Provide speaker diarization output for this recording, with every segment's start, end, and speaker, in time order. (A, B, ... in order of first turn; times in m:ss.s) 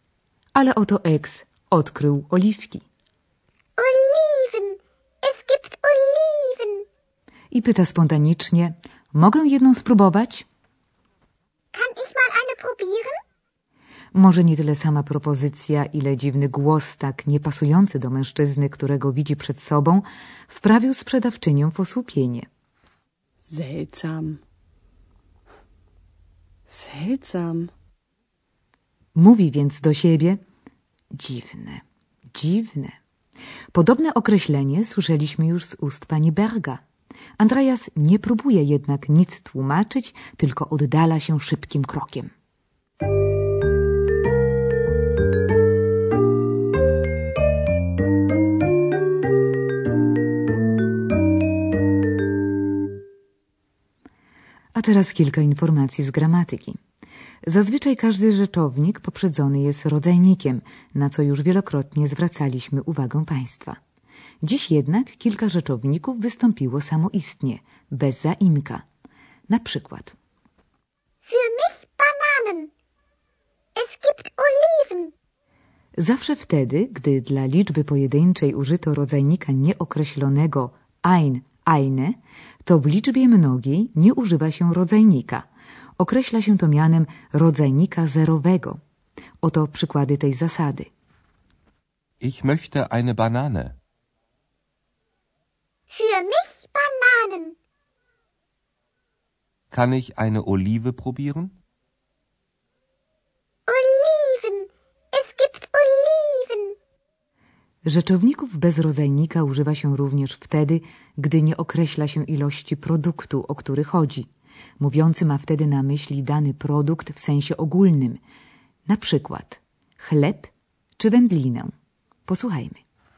0:00.5-0:02.8 A
0:03.8-0:06.8 B
0:07.5-0:10.4 A
0:11.7-0:13.2 B
0:14.1-0:22.5 A
0:23.5-0:24.4 C
0:26.7-0:27.7 C
0:29.1-0:30.4 A
0:31.1-0:33.0 A
0:33.7-0:36.8 A
0:37.4-0:42.3 A
0:54.7-0:56.8 A
0:57.4-1:03.8 A
1:04.4-1:08.8 A
1:09.5-1:10.2 A
1:11.3-1:12.7 B
1:13.8-1:15.1 B
1:16.0-1:25.5 A
1:26.0-1:28.8 A
1:29.4-1:30.9 A
1:32.2-1:33.8 D
1:35.9-1:37.5 B
1:39.7-1:41.6 D
1:43.7-1:46.7 B
1:47.8-1:54.3 A
1:54.8-1:58.2 A
1:58.9-2:01.7 A
2:02.3-2:02.8 A